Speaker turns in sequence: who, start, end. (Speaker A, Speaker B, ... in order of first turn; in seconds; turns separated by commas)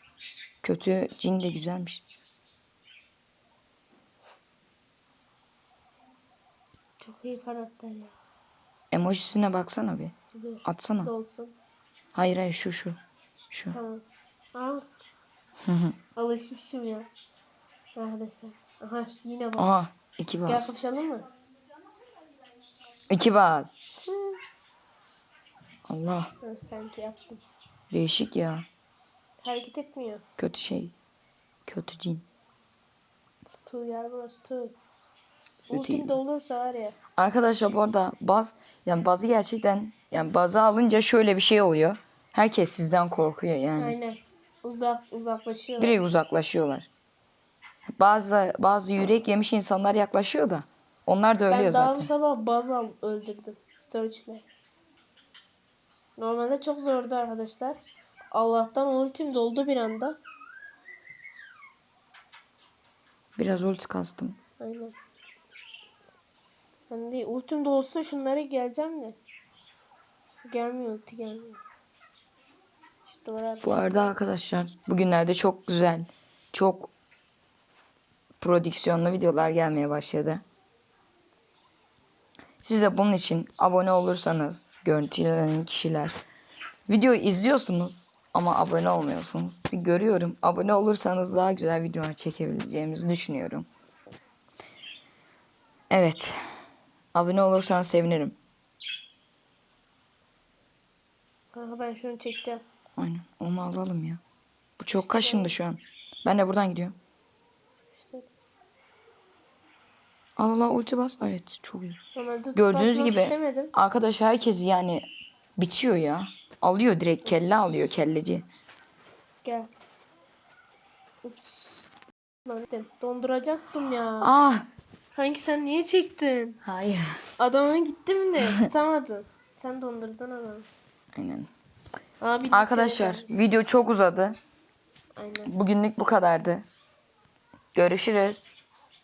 Speaker A: 0.6-2.0, Speaker B: 7.0-8.1, Speaker A: 8.9-10.1, Speaker B: 10.3-11.5, Speaker A: 10.6-11.1, Speaker A: 12.1-13.0, Speaker A: 13.5-13.8, Speaker B: 13.7-14.9, Speaker A: 15.6-16.0, Speaker B: 16.1-17.1, Speaker B: 17.9-19.8, Speaker A: 19.6-20.8, Speaker B: 20.4-21.3, Speaker A: 23.1-23.7, Speaker B: 24.0-24.4, Speaker A: 25.9-26.3, Speaker B: 26.4-27.4, Speaker A: 27.9-28.7, Speaker B: 29.4-30.2, Speaker A: 30.4-30.9, Speaker A: 31.7-32.2, Speaker B: 33.5-34.8, Speaker A: 35.7-36.2, Speaker B: 35.7-37.0, Speaker A: 37.1-44.0, Speaker B: 43.8-46.0, Speaker A: 45.8-46.9, Speaker A: 48.0-52.1, Speaker B: 51.5-54.5, Speaker B: 56.2-57.8, Speaker B: 58.3-60.2, Speaker A: 63.4-64.4, Speaker B: 64.6-64.9, Speaker B: 66.9-69.2, Speaker B: 70.5-71.6, Speaker B: 73.1-74.1, Speaker A: 73.6-76.9, Speaker A: 78.4-80.4, Speaker A: 82.6-86.1, Speaker A: 86.9-93.7, Speaker A: 95.9-96.3, Speaker A: 97.1-98.3, Speaker B: 101.5-102.6, Speaker A: 103.0-104.2, Speaker A: 104.8-107.0, Speaker B: 104.9-105.5, Speaker B: 107.9-108.3, Speaker A: 110.4-112.0, Speaker B: 112.1-113.7, Speaker A: 112.5-118.5, Speaker B: 119.4-119.7, Speaker B: 121.2-121.9, Speaker B: 122.4-124.3, Speaker A: 124.2-124.7, Speaker B: 125.1-126.6, Speaker A: 126.6-127.2, Speaker B: 127.4-130.7, Speaker A: 131.2-131.5, Speaker B: 132.2-133.3, Speaker A: 132.5-134.3, Speaker B: 135.2-135.5, Speaker A: 135.4-136.6, Speaker A: 137.7-138.5